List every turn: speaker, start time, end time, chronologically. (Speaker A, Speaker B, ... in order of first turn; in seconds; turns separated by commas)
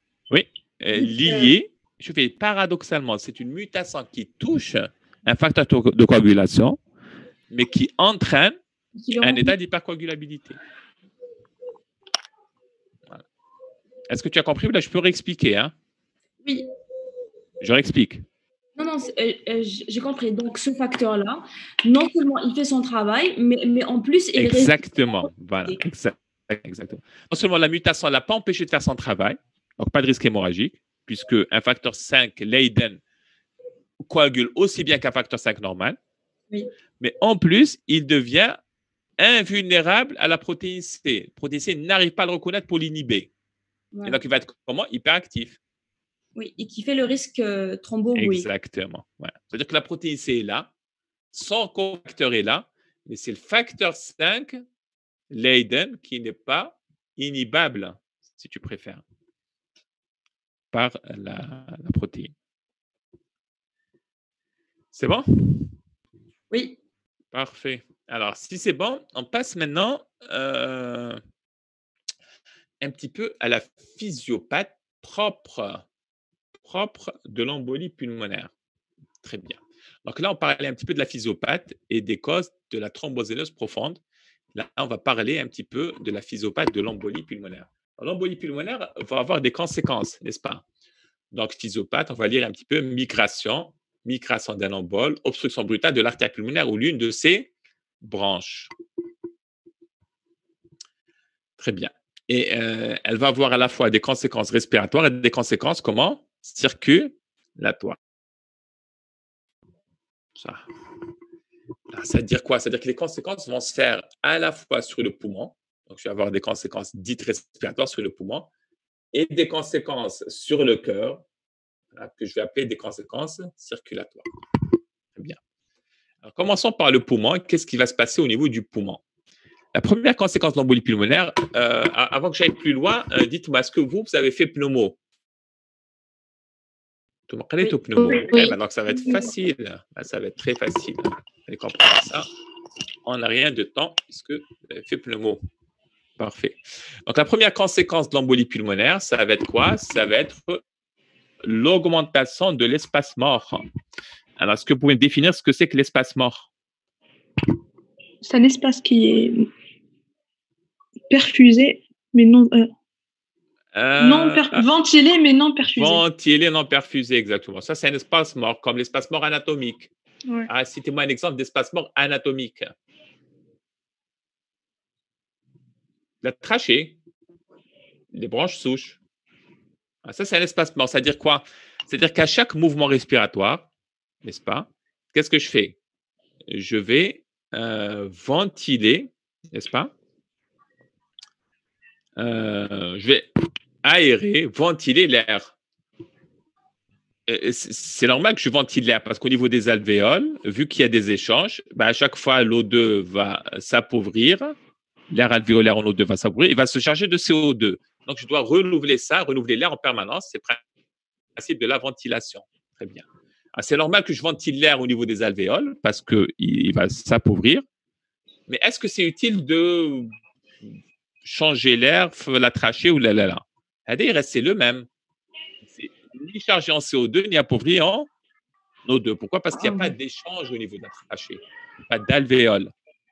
Speaker A: 0.3-6.8, Speaker B: 0.9-1.5, Speaker A: 7.5-8.6, Speaker B: 8.9-9.5, Speaker A: 9.2-10.6, Speaker A: 14.1-15.7, Speaker A: 17.6-18.2, Speaker B: 18.8-25.8, Speaker A: 24.4-33.0, Speaker A: 34.0-36.0, Speaker A: 37.0-38.6, Speaker A: 39.2-43.3, Speaker B: 43.9-44.2, Speaker A: 44.0-45.6, Speaker B: 46.4-48.5, Speaker A: 48.1-50.7, Speaker A: 51.3-54.6, Speaker A: 55.3-59.0, Speaker A: 60.7-62.3, Speaker A: 64.9-65.7, Speaker B: 66.5-66.7, Speaker A: 67.3-71.2, Speaker A: 72.8-75.8, Speaker A: 76.6-78.5, Speaker A: 79.2-84.0, Speaker A: 84.5-90.6, Speaker A: 91.3-97.5, Speaker A: 98.0-98.7, Speaker A: 101.6-108.0, Speaker A: 110.3-110.6, Speaker A: 111.9-118.5, Speaker A: 119.1-121.2, Speaker A: 121.9-124.3, Speaker A: 126.2-129.0, Speaker A: 129.7-135.0, Speaker A: 137.3-142.3, Speaker A: 143.1-145.4, Speaker A: 146.2-150.6, Speaker A: 151.4-153.6, Speaker A: 154.4-156.5, Speaker C: 158.2-159.5, Speaker C: 161.1-162.7, Speaker A: 163.7-164.7, Speaker C: 164.0-166.0, Speaker A: 165.6-169.9, Speaker A: 170.5-172.7, Speaker A: 176.2-177.0, Speaker A: 178.1-179.0, Speaker A: 180.1-183.7, Speaker A: 184.2-185.8, Speaker A: 186.5-189.9, Speaker A: 192.2-193.3, Speaker A: 193.8-195.5, Speaker A: 197.3-204.6, Speaker A: 205.1-210.6, Speaker A: 211.3-213.1, Speaker A: 213.6-217.6, Speaker A: 218.5-220.1, Speaker A: 221.2-224.9, Speaker A: 225.7-228.1, Speaker A: 228.8-232.7